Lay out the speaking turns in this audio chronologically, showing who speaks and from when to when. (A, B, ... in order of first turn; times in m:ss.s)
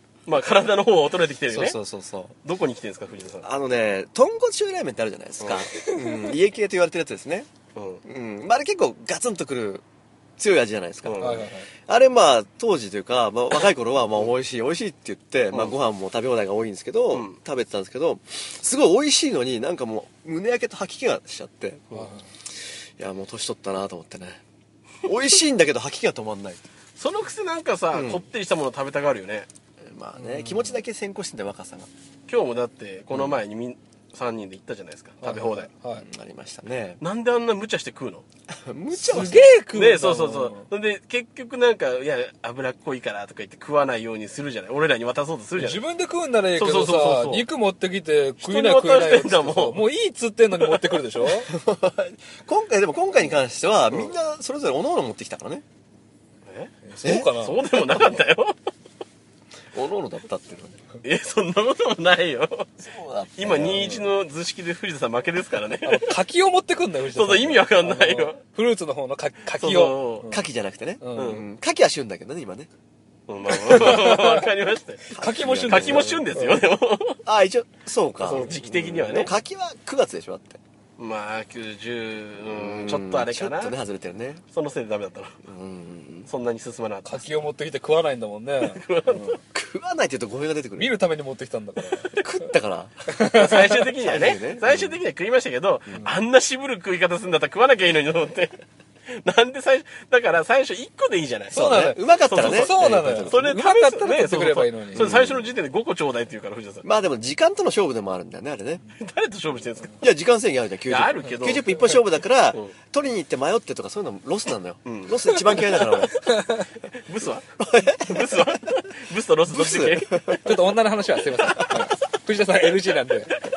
0:00.3-0:01.8 A
0:01.5-0:02.4 B
0:02.4-0:03.5 A
0:03.4-0:07.5 B
0:05.4-0:05.7 A
0:05.8-0:06.3 C
0:07.8-0:08.0 A
0:08.0-0:09.8 B
0:10.4-0:21.9 B
0:11.0-0:11.5 A
0:11.2-0:11.7 C
0:17.1-0:17.4 A
0:21.9-0:22.2 C
0:23.0-0:24.4 B
0:25.0-0:26.6 B
0:27.0-0:29.5 A
0:27.9-0:28.2 B
0:29.8-0:31.9 B
0:30.2-0:30.8 C
0:32.3-0:35.7 A
0:33.1-0:33.4 B
0:35.2-0:36.1 C
0:36.0-0:37.0 B
0:37.0-0:38.2 A
0:38.5-0:39.5 B
0:38.9-0:40.7 C
0:39.7-0:45.9 A
0:45.6-0:51.5 C
0:46.6-0:47.5 A
0:48.4-0:49.9 A
0:50.6-0:51.0 A
0:51.5-0:55.6 B
0:56.5-0:58.6 A
0:56.9-0:57.6 C
0:57.0-0:57.3 B
0:59.7-1:00.8 B
1:01.0-1:02.7 A
1:02.8-1:04.0 B
1:03.4-1:06.2 A
1:05.8-1:10.4 C
1:07.1-1:08.4 A
1:09.6-1:10.3 A
1:10.3-1:12.7 B
1:11.0-1:11.4 C
1:11.2-1:11.4 A
1:13.3-1:15.1 A
1:13.6-1:14.5 C
1:13.7-1:14.0 B
1:15.1-1:16.3 B
1:15.2-1:16.6 C
1:15.7-1:17.2 A
1:17.2-1:20.6 B
1:18.2-1:19.3 A
1:21.0-1:23.8 A
1:22.4-1:24.4 B
1:24.5-1:25.4 A
1:25.4-1:26.3 B
1:26.3-1:27.4 A
1:27.0-1:29.4 C
1:28.6-1:29.4 A
1:29.5-1:31.0 B
1:30.8-1:32.2 C
1:32.1-1:33.2 B
1:33.1-1:33.8 C
1:33.3-1:46.8 A
1:34.0-1:35.0 B
1:41.5-1:43.5 B
1:41.5-1:45.1 C
1:45.0-1:45.5 B
1:46.8-1:48.8 B
1:49.0-1:50.0 A
1:50.0-1:56.3 B
1:50.9-1:52.7 A
1:54.8-1:55.9 A
1:56.2-1:56.7 C
1:57.0-2:00.5 A
1:57.6-1:58.6 B
1:59.5-2:00.6 B
2:00.4-2:03.4 C
2:01.4-2:01.9 B